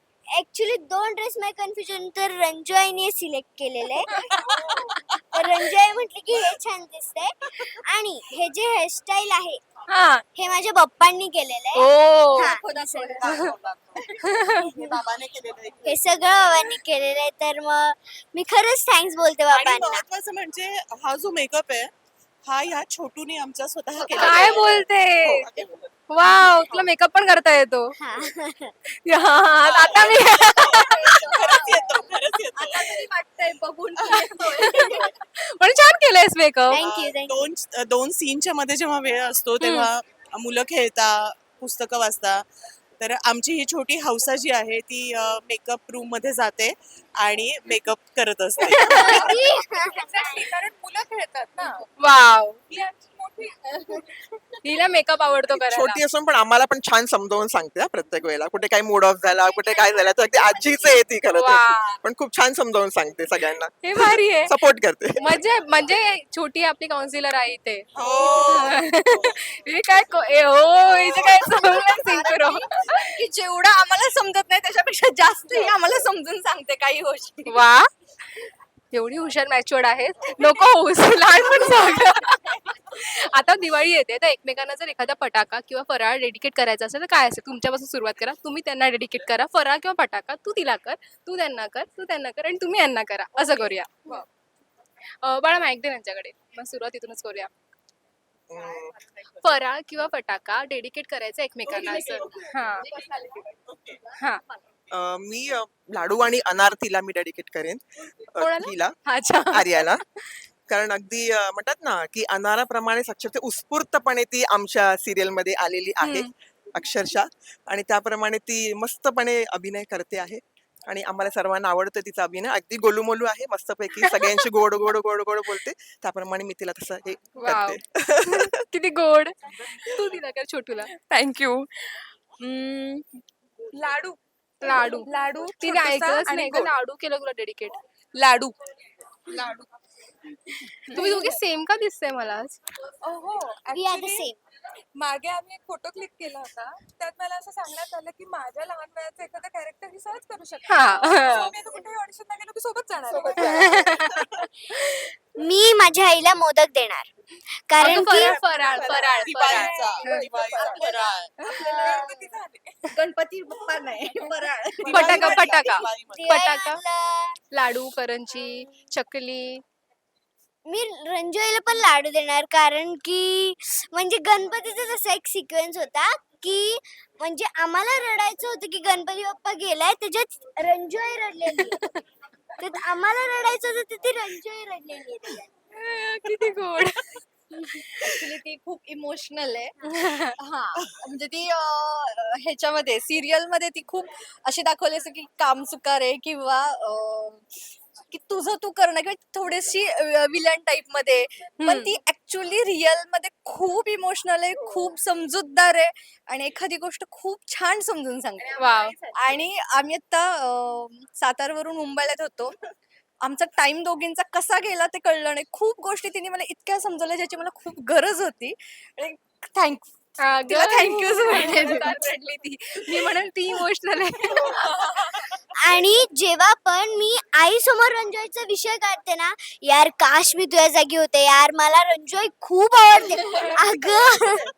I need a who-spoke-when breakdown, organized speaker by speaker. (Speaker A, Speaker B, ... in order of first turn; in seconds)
Speaker A: 0.3-4.1, 5.3-9.6, 10.3-12.7, 15.8-20.1, 28.0-28.7, 36.7-37.5, 49.3-50.1, 143.7-144.3, 154.9-157.1, 157.7-158.4, 166.1-167.4, 170.7-181.8, 182.6-185.5, 225.6-234.4
Speaker B: 4.4-4.9, 12.2-14.0, 30.6-35.0, 68.0-68.5, 70.9-77.6, 81.3-82.1, 159.5-162.2, 162.9-165.6, 187.7-197.4, 198.1-212.6, 213.2-222.1
Speaker C: 9.9-10.2, 11.7-12.5, 14.2-14.7, 24.1-25.5, 26.1-27.9, 28.9-31.0, 34.1-36.8, 39.6-39.9, 48.6-49.3, 52.0-52.6, 54.6-56.0, 61.3-62.0, 63.8-64.6, 65.2-73.0, 77.5-77.9, 78.9-94.2, 95.2-97.5, 99.3-102.9, 108.4-110.0, 116.0-116.3, 127.4-130.9, 134.6-137.8, 140.9-142.6, 150.7-151.5, 153.4-154.4, 157.8-160.2, 164.9-166.8, 167.5-169.6, 181.6-182.0, 185.7-187.2, 189.9-190.3, 201.6-201.9, 208.5-209.0, 220.2-225.3
Speaker D: 12.8-16.8, 19.5-21.9, 22.4-24.8, 25.3-25.9, 26.4-26.8, 29.6-33.1, 34.0-34.5, 36.7-42.4, 43.0-49.4, 67.9-69.4, 101.7-102.4, 103.7-104.0, 157.8-161.3, 164.8-166.2
Speaker E: 49.0-51.9, 52.7-54.3, 130.9-133.2, 133.8-136.7, 138.2-138.6, 139.3-139.7, 140.5-141.3, 143.0-144.3, 145.0-153.7, 161.4-162.9
Speaker F: 55.5-65.4, 98.5-99.0, 104.9-110.0, 110.7-128.5